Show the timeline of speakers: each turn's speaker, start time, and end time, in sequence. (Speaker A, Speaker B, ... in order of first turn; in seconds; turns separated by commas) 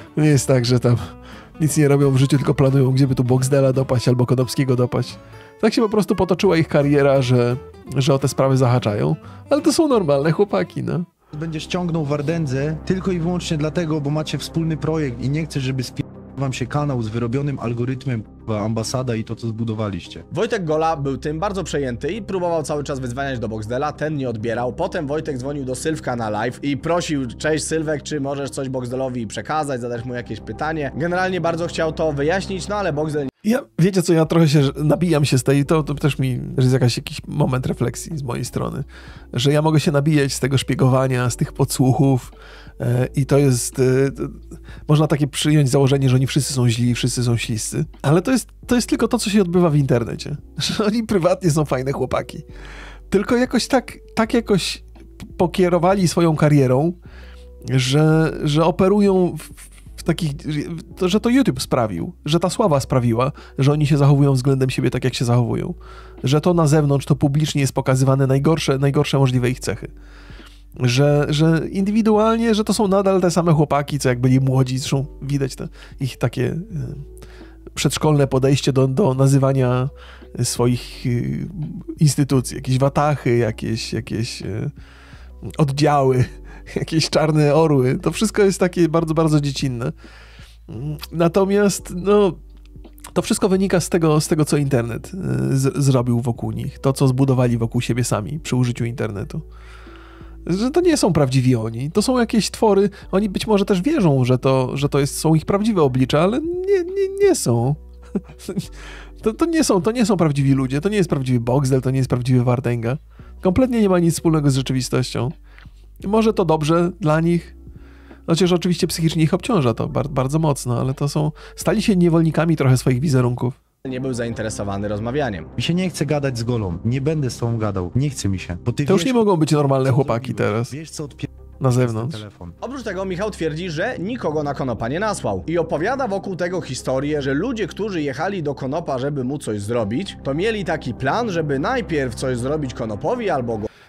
Speaker A: 0.1-11.1, Speaker B: 11.3-20.2, Speaker C: 20.3-33.3, Speaker A: 33.4-52.4, Speaker A: 53.1-54.8, Speaker A: 55.3-57.0, Speaker A: 57.6-69.9, Speaker A: 70.8-77.0, Speaker A: 77.7-84.7, Speaker A: 85.6-89.9, Speaker A: 90.7-92.4, Speaker A: 93.1-99.4, Speaker A: 100.5-107.8, Speaker A: 108.4-108.7, Speaker A: 109.2-115.3, Speaker A: 116.0-117.5, Speaker A: 118.3-123.5, Speaker C: 123.8-125.5, Speaker B: 125.6-129.2, Speaker A: 128.8-130.7, Speaker B: 129.8-132.6, Speaker A: 131.6-132.2, Speaker C: 132.6-143.7